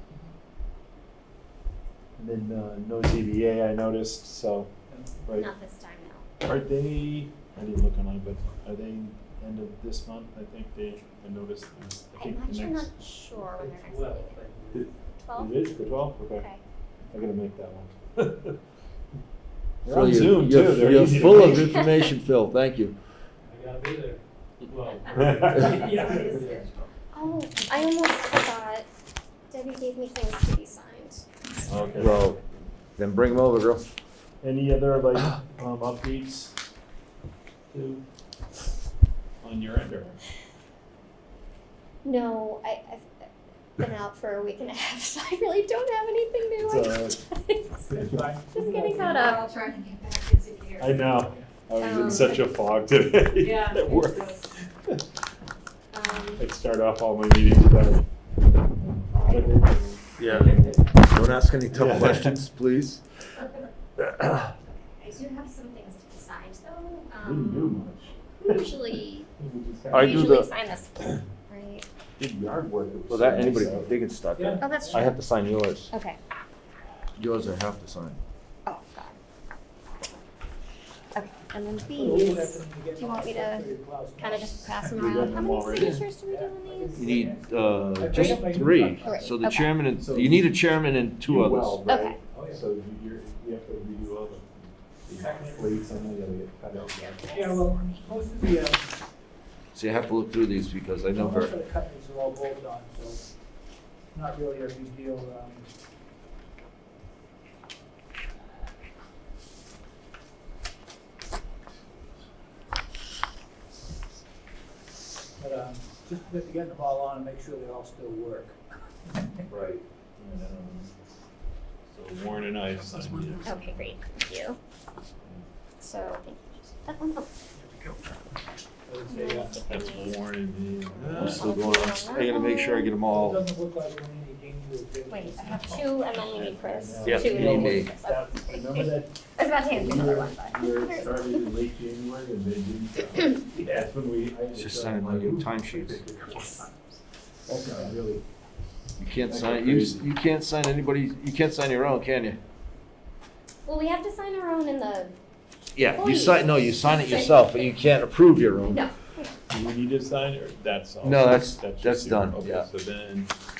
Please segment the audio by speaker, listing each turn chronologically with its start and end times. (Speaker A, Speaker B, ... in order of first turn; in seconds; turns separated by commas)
Speaker A: 2.2-4.7, Speaker B: 4.9-5.2, Speaker C: 5.3-6.2, Speaker A: 6.4-12.9, Speaker C: 12.2-14.3, Speaker B: 13.3-14.9, Speaker A: 14.7-16.5, Speaker C: 15.2-16.6, Speaker A: 17.1-18.6, Speaker D: 19.8-22.9, Speaker A: 19.9-21.9, Speaker C: 21.6-21.9, Speaker B: 23.4-26.6, Speaker A: 25.1-25.9, Speaker E: 26.0-26.9, Speaker C: 27.1-28.9, Speaker C: 29.5-31.3, Speaker B: 31.7-32.1, Speaker A: 31.7-32.3, Speaker D: 32.0-32.4, Speaker D: 33.0-33.8, Speaker A: 34.4-36.5, Speaker A: 37.7-38.0, Speaker A: 39.4-40.2, Speaker C: 42.0-43.2, Speaker C: 43.8-47.9, Speaker A: 46.6-47.2, Speaker B: 47.9-49.3, Speaker A: 48.0-48.2, Speaker C: 48.5-49.5, Speaker E: 48.8-51.1, Speaker A: 50.8-55.0, Speaker C: 51.8-52.4, Speaker E: 53.4-54.5, Speaker C: 55.9-56.5, Speaker A: 56.4-58.1, Speaker C: 59.1-59.7, Speaker A: 59.2-60.7, Speaker D: 60.2-63.0, Speaker B: 60.2-60.8, Speaker A: 61.7-62.4, Speaker D: 64.0-64.5, Speaker C: 64.7-67.8, Speaker A: 67.2-68.6, Speaker C: 68.4-69.3, Speaker A: 69.4-70.4, Speaker D: 69.9-70.5, Speaker C: 69.9-71.9, Speaker A: 72.2-73.9, Speaker D: 73.1-75.9, Speaker B: 74.3-75.1, Speaker C: 74.6-75.1, Speaker C: 75.9-76.2, Speaker D: 77.2-78.2, Speaker C: 78.7-79.2, Speaker C: 81.1-87.2, Speaker B: 81.8-85.2, Speaker A: 84.9-86.0, Speaker D: 85.8-86.0, Speaker B: 86.3-89.3, Speaker D: 87.0-91.8, Speaker C: 88.1-88.4, Speaker C: 89.0-89.8, Speaker A: 90.0-90.5, Speaker A: 91.2-97.4, Speaker C: 91.8-92.2, Speaker B: 92.3-92.6, Speaker B: 95.2-96.0, Speaker C: 97.3-98.0, Speaker B: 97.3-98.9, Speaker D: 99.8-101.5, Speaker B: 101.1-103.2, Speaker B: 104.1-105.7, Speaker B: 115.4-119.4, Speaker A: 119.5-120.9, Speaker A: 121.9-123.9, Speaker C: 123.4-124.6, Speaker C: 125.8-127.3, Speaker B: 127.5-128.0, Speaker B: 128.9-129.7, Speaker C: 129.1-130.2, Speaker A: 129.7-131.6, Speaker C: 130.9-132.9, Speaker D: 131.1-133.4, Speaker B: 133.0-136.1, Speaker C: 135.1-141.4, Speaker A: 136.3-146.6, Speaker D: 137.0-137.9, Speaker B: 143.6-143.8, Speaker D: 144.6-146.1, Speaker C: 146.3-146.7, Speaker A: 147.5-148.2, Speaker B: 147.7-147.9, Speaker D: 149.0-152.4, Speaker A: 149.3-150.1, Speaker C: 153.7-155.1, Speaker D: 155.8-158.8, Speaker C: 155.8-157.8, Speaker C: 158.7-159.3, Speaker A: 159.5-163.3, Speaker D: 161.0-162.7